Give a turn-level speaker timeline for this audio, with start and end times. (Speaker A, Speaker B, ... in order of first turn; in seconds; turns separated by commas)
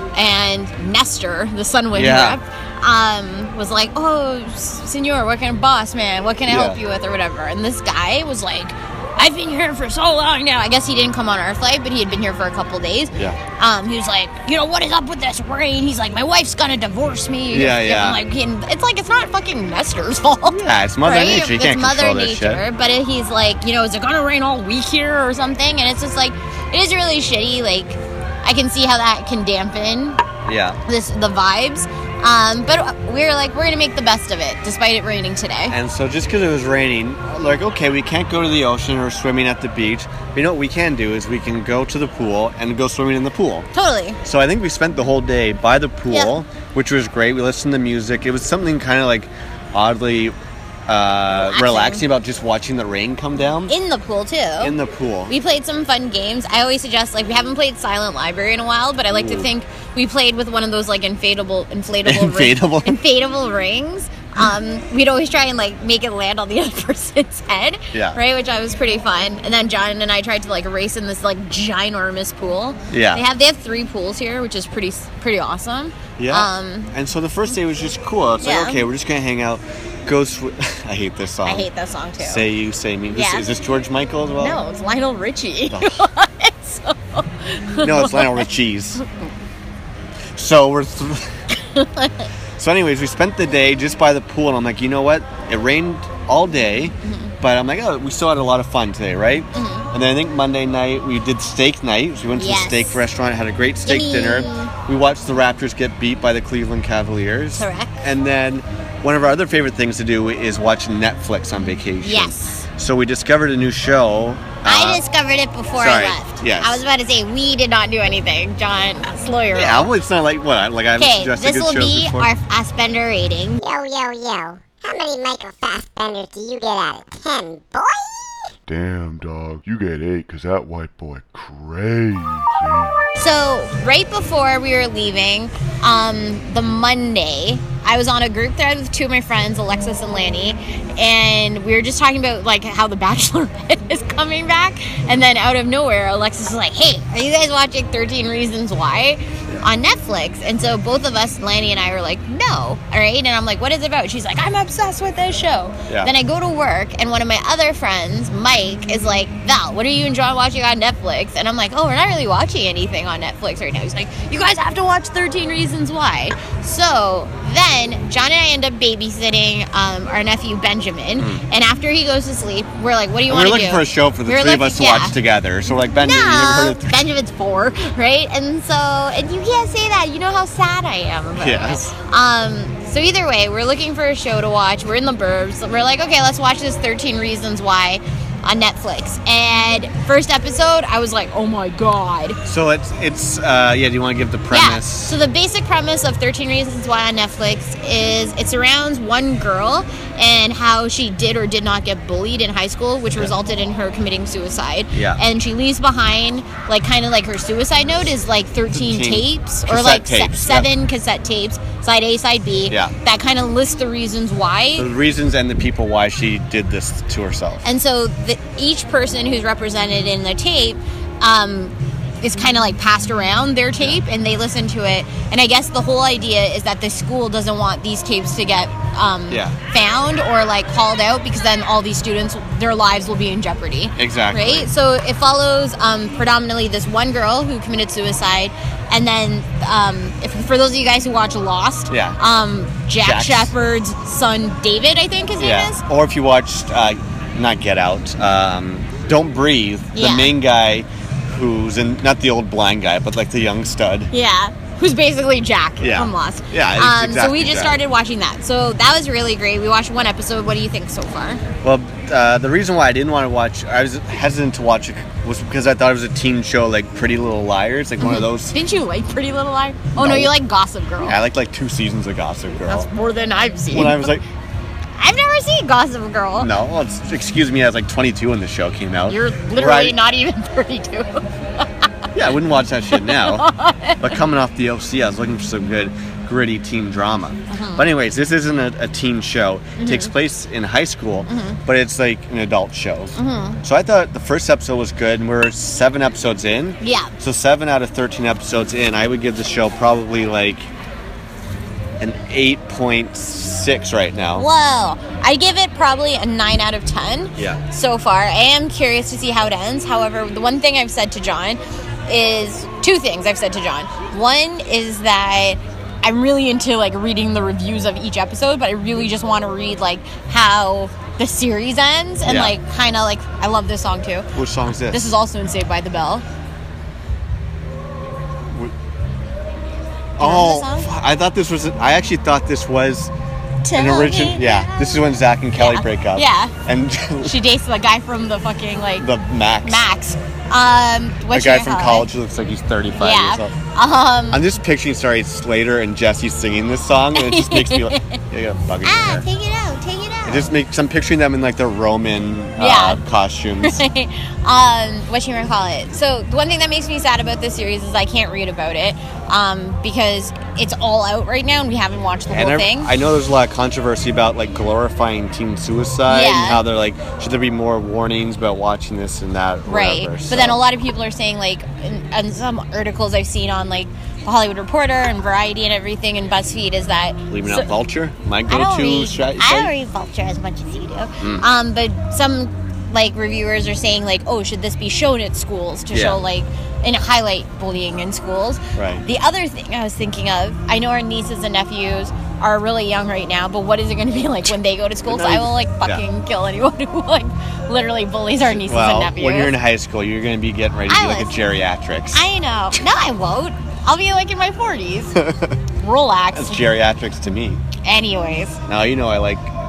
Speaker A: 0.1-30.2, Speaker B: 1.9-2.4, Speaker B: 6.5-6.8, Speaker B: 17.5-18.2, Speaker B: 20.5-22.6, Speaker B: 30.4-30.8, Speaker A: 30.9-35.8, Speaker B: 35.7-43.7, Speaker A: 43.7-44.2, Speaker B: 44.2-50.4, Speaker B: 50.9-53.7, Speaker A: 51.4-52.0, Speaker A: 53.7-54.7, Speaker B: 54.6-55.4, Speaker A: 55.3-76.9, Speaker B: 59.1-59.5, Speaker B: 62.0-63.0, Speaker B: 67.9-68.2, Speaker B: 72.9-73.2, Speaker B: 76.2-81.7, Speaker A: 78.4-78.8, Speaker A: 81.5-82.5, Speaker B: 82.2-84.6, Speaker A: 83.1-83.5, Speaker A: 84.4-88.5, Speaker B: 85.7-86.1, Speaker B: 87.8-89.0, Speaker B: 90.4-91.3, Speaker A: 91.6-92.3, Speaker B: 92.6-115.0, Speaker A: 97.0-97.3, Speaker A: 99.5-99.9, Speaker A: 102.3-103.0, Speaker A: 103.9-104.7, Speaker A: 107.5-108.0, Speaker A: 112.0-112.7, Speaker A: 114.7-119.9, Speaker B: 115.8-116.8, Speaker B: 119.5-122.3, Speaker A: 121.0-123.6, Speaker C: 123.6-128.4, Speaker D: 128.7-133.1, Speaker A: 133.2-175.2, Speaker B: 155.9-156.1, Speaker B: 173.3-177.0, Speaker A: 176.0-192.4, Speaker B: 181.4-181.9, Speaker B: 192.4-195.2, Speaker A: 194.5-214.9, Speaker B: 204.9-205.2, Speaker B: 208.7-210.7, Speaker B: 212.7-212.9, Speaker B: 214.8-217.7, Speaker A: 217.6-245.8, Speaker B: 229.3-229.6, Speaker B: 234.0-234.7, Speaker B: 241.9-242.2, Speaker B: 243.0-243.5, Speaker B: 245.4-254.1, Speaker A: 249.9-250.3, Speaker A: 254.1-261.4, Speaker B: 255.8-257.8, Speaker B: 261.6-268.6, Speaker A: 268.0-271.2, Speaker B: 270.0-270.3, Speaker B: 271.0-272.9, Speaker A: 272.7-274.1, Speaker B: 273.7-274.2, Speaker A: 275.0-276.5, Speaker B: 276.4-280.0, Speaker A: 279.1-281.6, Speaker B: 282.1-283.5, Speaker A: 282.9-284.2, Speaker B: 284.0-300.7, Speaker A: 287.5-287.9, Speaker A: 289.8-290.1, Speaker A: 291.3-291.6, Speaker A: 293.2-293.6, Speaker A: 296.8-297.1, Speaker B: 302.0-304.5, Speaker A: 304.3-324.3, Speaker B: 322.2-322.6, Speaker B: 324.3-325.1, Speaker A: 324.9-326.2, Speaker B: 330.2-333.1, Speaker A: 330.2-330.9, Speaker A: 333.6-334.9, Speaker B: 333.7-337.4, Speaker A: 335.6-336.5, Speaker A: 337.2-339.1, Speaker B: 339.0-339.9, Speaker A: 339.6-342.1, Speaker B: 341.3-343.6, Speaker A: 343.0-344.4, Speaker B: 344.3-349.3, Speaker A: 347.1-348.2, Speaker A: 348.8-350.5, Speaker B: 350.2-353.8, Speaker A: 352.6-353.0, Speaker A: 353.6-362.9, Speaker B: 362.3-370.6, Speaker A: 366.1-366.6, Speaker A: 369.7-377.7, Speaker B: 377.3-379.7, Speaker A: 378.5-399.5, Speaker B: 381.2-381.5, Speaker B: 385.9-386.2, Speaker B: 388.8-389.0, Speaker B: 395.0-396.0, Speaker B: 398.4-402.8, Speaker A: 400.9-401.4, Speaker A: 402.1-405.2, Speaker B: 405.1-405.6, Speaker A: 405.8-406.6, Speaker B: 406.3-407.6, Speaker A: 407.8-408.6, Speaker B: 408.7-409.5